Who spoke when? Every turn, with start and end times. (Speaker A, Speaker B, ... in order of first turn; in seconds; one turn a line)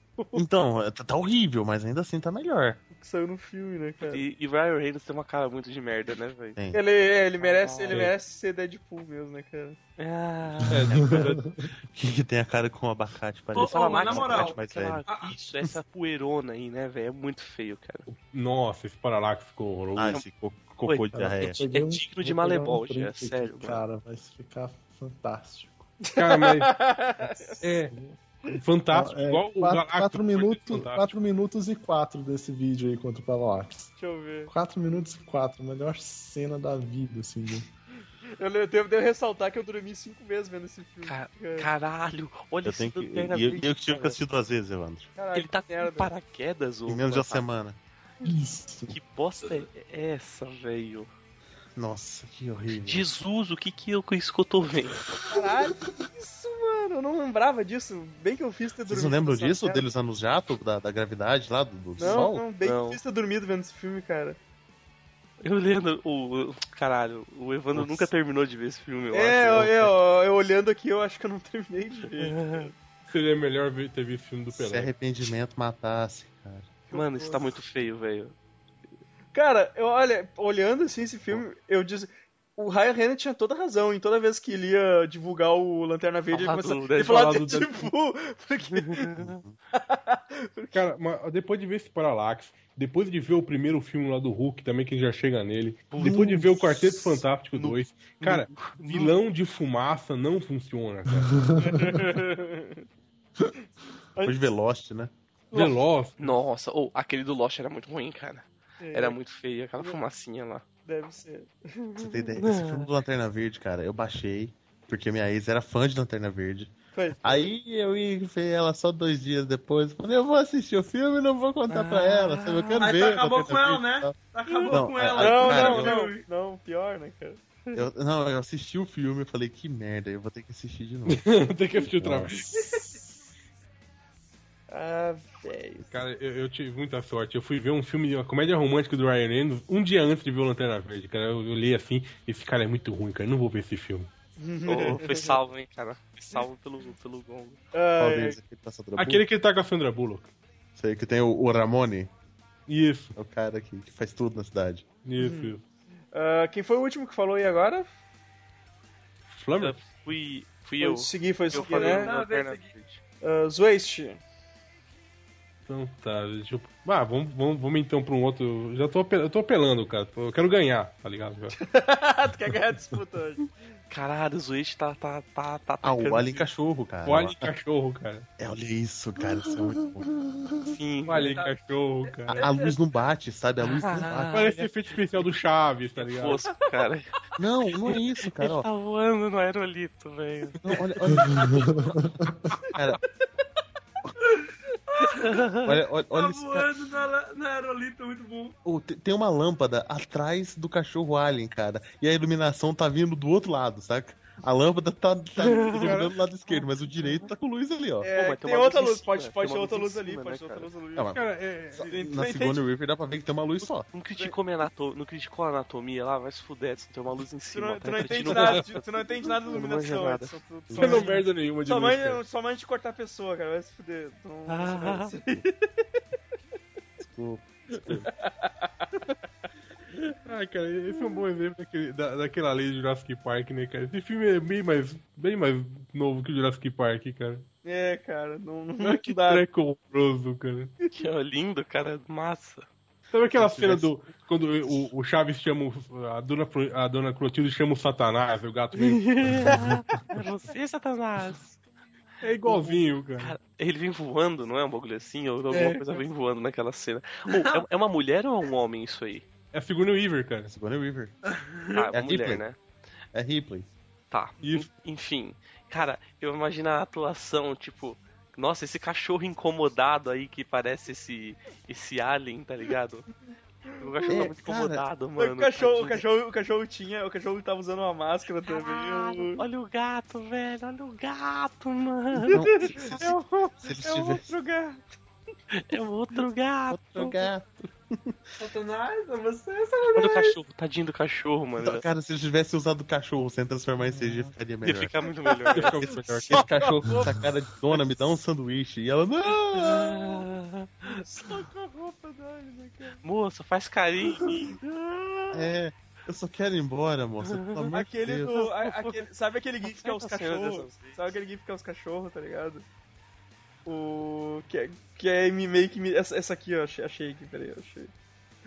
Speaker A: 0.3-2.8
Speaker B: 2.9-4.2
Speaker C: 4.0-6.6
Speaker A: 6.5-6.8
Speaker B: 6.7-9.8
Speaker C: 7.4-8.1
Speaker C: 10.0-11.3
Speaker D: 10.6-11.6
Speaker E: 10.7-11.3
Speaker A: 10.9-11.2
Speaker A: 11.9-15.0
Speaker F: 13.5-15.3
Speaker C: 13.5-18.0
Speaker E: 18.1-20.2
Speaker A: 19.9-21.6
Speaker C: 20.8-23.8
Speaker D: 21.1-25.9
Speaker E: 26.1-26.8
Speaker B: 26.1-27.6
Speaker D: 27.2-28.2
Speaker E: 27.6-27.9
Speaker E: 28.5-31.2
Speaker D: 28.9-33.9
Speaker B: 34.0-34.5
Speaker D: 34.5-37.7
Speaker B: 38.4-41.7
Speaker C: 41.1-44.2
Speaker A: 42.6-45.1
Speaker B: 45.2-46.1
Speaker C: 45.3-47.5
Speaker A: 46.9-47.8
Speaker D: 48.2-49.0
Speaker C: 48.9-51.1
Speaker A: 51.8-53.0
Speaker C: 52.8-55.0
Speaker B: 55.2-59.8
Speaker D: 55.3-55.8
Speaker A: 58.9-62.5
Speaker B: 62.0-64.4
Speaker C: 62.0-63.0
Speaker C: 65.4-69.9
Speaker A: 67.7-68.1
Speaker B: 69.1-72.7
Speaker C: 72.2-72.7
Speaker E: 73.1-74.9
Speaker A: 74.5-76.7
Speaker B: 76.9-77.5
Speaker C: 76.9-78.3
Speaker B: 79.3-89.1
Speaker C: 86.3-87.9
Speaker C: 88.7-89.4
Speaker A: 89.2-89.6
Speaker B: 89.7-90.8
Speaker E: 90.7-101.5
Speaker C: 95.9-96.2
Speaker A: 96.2-96.5
Speaker C: 97.5-99.1
Speaker D: 101.3-101.8
Speaker B: 101.6-102.8
Speaker B: 104.1-104.5
Speaker A: 104.2-105.1
Speaker B: 105.5-105.8
Speaker E: 105.5-106.2
Speaker C: 106.2-110.6
Speaker B: 108.8-109.2
Speaker B: 110.8-112.2
Speaker A: 112.0-124.2
Speaker C: 112.4-112.9
Speaker B: 116.9-117.5
Speaker C: 121.7-123.1
Speaker F: 122.8-126.2
Speaker B: 124.5-127.4
Speaker A: 124.7-126.0
Speaker A: 127.7-131.3
Speaker E: 131.1-132.8
Speaker A: 131.9-132.4
Speaker B: 134.7-135.9
Speaker E: 135.9-144.1
Speaker B: 144.4-145.3
Speaker C: 144.7-147.6
Speaker B: 147.7-148.4
Speaker A: 148.0-149.2
Speaker E: 148.9-150.3
Speaker A: 150.8-152.1
Speaker E: 152.7-153.1
Speaker A: 153.2-154.9
Speaker E: 155.0-155.6
Speaker B: 155.2-155.6
Speaker B: 156.1-157.9
Speaker E: 159.3-159.8
Speaker C: 159.6-163.0
Speaker B: 160.8-162.1
Speaker F: 161.5-162.7
Speaker B: 163.2-164.2
Speaker E: 165.7-171.6
Speaker B: 171.5-173.5
Speaker C: 173.9-176.5
Speaker A: 175.8-177.5
Speaker E: 177.0-178.3
Speaker A: 178.4-180.1
Speaker C: 180.6-181.4
Speaker E: 181.1-182.4
Speaker F: 181.2-181.5
Speaker F: 182.1-182.7
Speaker A: 182.3-184.4
Speaker C: 183.6-184.7
Speaker E: 184.3-186.5
Speaker C: 186.0-187.1
Speaker A: 187.4-188.7
Speaker C: 187.9-190.6
Speaker A: 190.6-191.8
Speaker D: 191.1-192.3
Speaker A: 192.7-193.0
Speaker F: 194.3-195.4
Speaker C: 195.2-195.8
Speaker A: 195.6-196.7
Speaker F: 196.1-198.6
Speaker A: 198.6-208.1
Speaker C: 205.4-206.0
Speaker E: 205.7-206.1
Speaker C: 207.0-207.2
Speaker B: 208.0-211.2
Speaker C: 208.0-210.7
Speaker A: 210.9-213.9
Speaker E: 211.1-211.9
Speaker B: 211.8-212.6
Speaker C: 213.8-221.1
Speaker B: 217.5-225.8
Speaker E: 218.1-218.7
Speaker A: 220.7-221.0
Speaker E: 220.7-222.2
Speaker C: 224.5-225.1
Speaker A: 227.0-228.0
Speaker B: 228.2-228.9
Speaker E: 230.1-237.4
Speaker B: 230.9-231.2
Speaker B: 237.6-239.4
Speaker E: 238.8-240.7
Speaker C: 240.9-242.7
Speaker E: 243.1-249.5
Speaker A: 243.3-243.9
Speaker C: 248.8-251.6
Speaker E: 252.2-253.3
Speaker C: 252.4-259.3
Speaker F: 255.5-255.8
Speaker F: 257.3-257.6
Speaker E: 259.5-260.5
Speaker A: 260.5-261.1
Speaker F: 261.3-261.8
Speaker C: 261.7-262.6
Speaker A: 261.9-262.4
Speaker A: 263.1-263.7
Speaker C: 264.1-273.1
Speaker E: 264.4-264.7
Speaker B: 273.7-274.3
Speaker C: 273.8-276.0
Speaker A: 274.1-274.8
Speaker B: 275.2-279.4
Speaker C: 278.4-282.4
Speaker A: 282.3-284.3
Speaker B: 282.3-284.8
Speaker C: 285.5-287.3
Speaker A: 286.7-288.2
Speaker F: 288.4-290.4
Speaker C: 289.9-291.8
Speaker A: 291.6-294.9
Speaker C: 294.6-296.0
Speaker E: 295.5-296.9
Speaker A: 296.3-300.1
Speaker B: 296.3-297.1
Speaker C: 299.6-301.0
Speaker B: 300.8-303.0
Speaker C: 303.0-305.4
Speaker A: 305.3-308.3
Speaker C: 307.2-307.7
Speaker B: 307.7-312.6
Speaker C: 308.3-309.1
Speaker C: 309.6-311.0
Speaker B: 313.6-317.9